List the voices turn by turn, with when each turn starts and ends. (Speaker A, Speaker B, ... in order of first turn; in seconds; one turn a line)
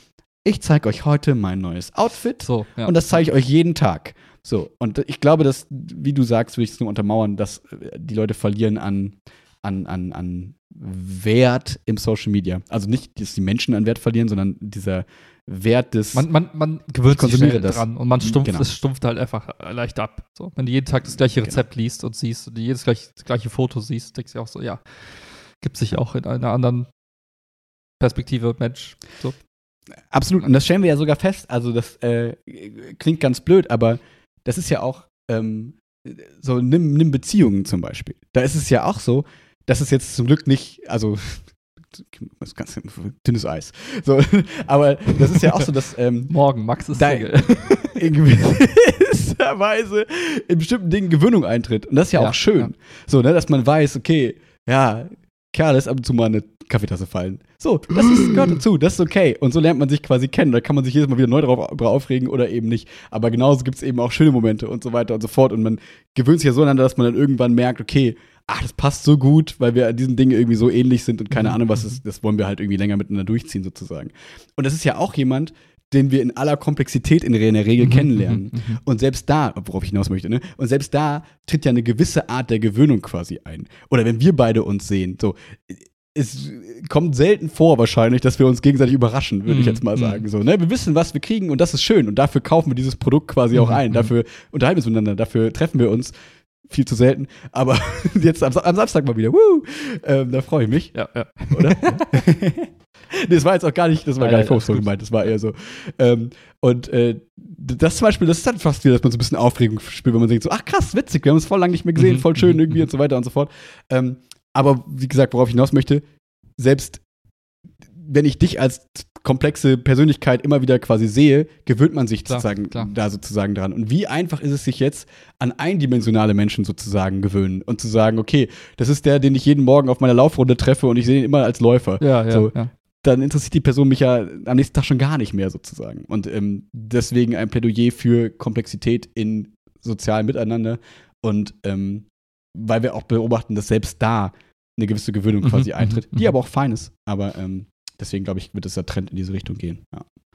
Speaker A: 0.4-16.3
Speaker B: 2.4-3.0
Speaker B: 16.1-24.8
Speaker A: 17.1-18.7
Speaker A: 21.1-21.6
Speaker B: 25.6-26.9
Speaker B: 28.0-29.4
Speaker A: 30.1-46.3
Speaker B: 46.3-48.0
Speaker A: 46.9-96.1
Speaker B: 52.1-52.7
Speaker B: 57.9-58.5
Speaker B: 71.3-71.9
Speaker B: 77.8-78.8
Speaker B: 89.5-90.2
Speaker B: 93.5-94.1
Speaker A: 96.6-101.0
Speaker B: 100.9-102.2
Speaker A: 101.5-116.0
Speaker B: 104.2-104.9
Speaker B: 112.0-112.8
Speaker A: 116.6-117.0
Speaker A: 117.9-150.1
Speaker B: 122.3-122.9
Speaker B: 132.0-132.7
Speaker B: 145.4-146.3